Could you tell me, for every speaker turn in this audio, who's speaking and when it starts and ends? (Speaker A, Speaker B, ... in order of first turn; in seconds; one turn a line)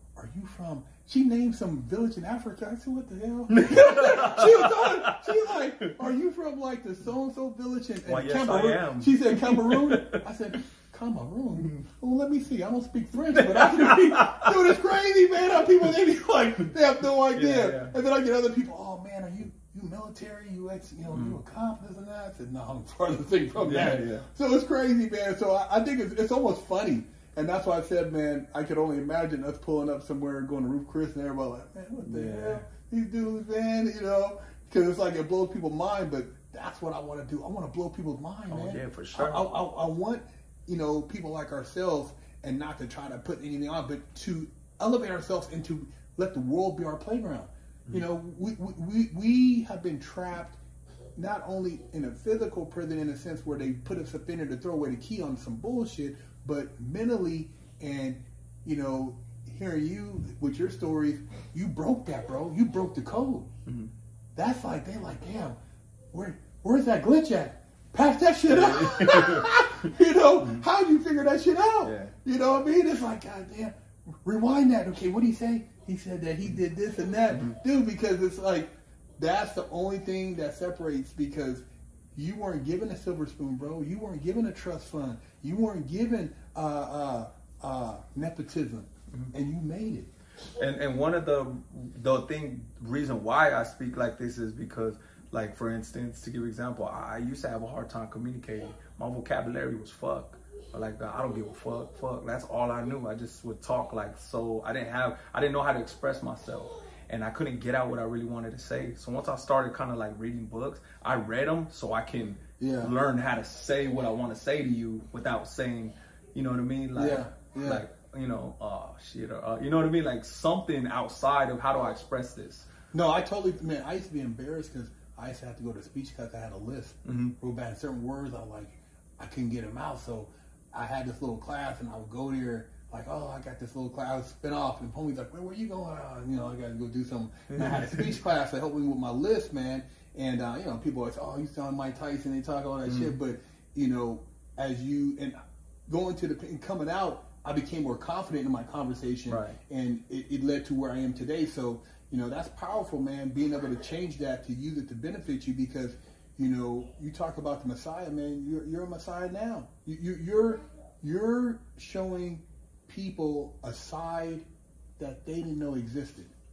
Speaker A: 0.2-50.6
Speaker B: 3.5-6.0
Speaker B: 8.1-10.2
Speaker B: 11.6-11.9
Speaker B: 13.3-14.8
Speaker B: 15.6-15.9
Speaker B: 17.3-17.9
Speaker B: 21.1-21.4
Speaker B: 23.6-24.3
Speaker B: 32.0-32.7
Speaker B: 38.5-39.5
Speaker A: 51.2-63.5
Speaker B: 63.7-63.9
Speaker A: 64.3-65.6
Speaker A: 66.1-81.6
Speaker B: 68.5-70.7
Speaker B: 71.8-72.2
Speaker B: 77.3-77.6
Speaker A: 82.2-90.1
Speaker B: 90.6-122.7
Speaker A: 112.6-112.9
Speaker A: 117.0-117.8
Speaker A: 122.9-145.4
Speaker B: 127.0-127.3
Speaker B: 137.5-138.2
Speaker B: 142.9-143.2
Speaker A: 145.9-164.5
Speaker B: 149.3-149.6
Speaker A: 165.0-166.3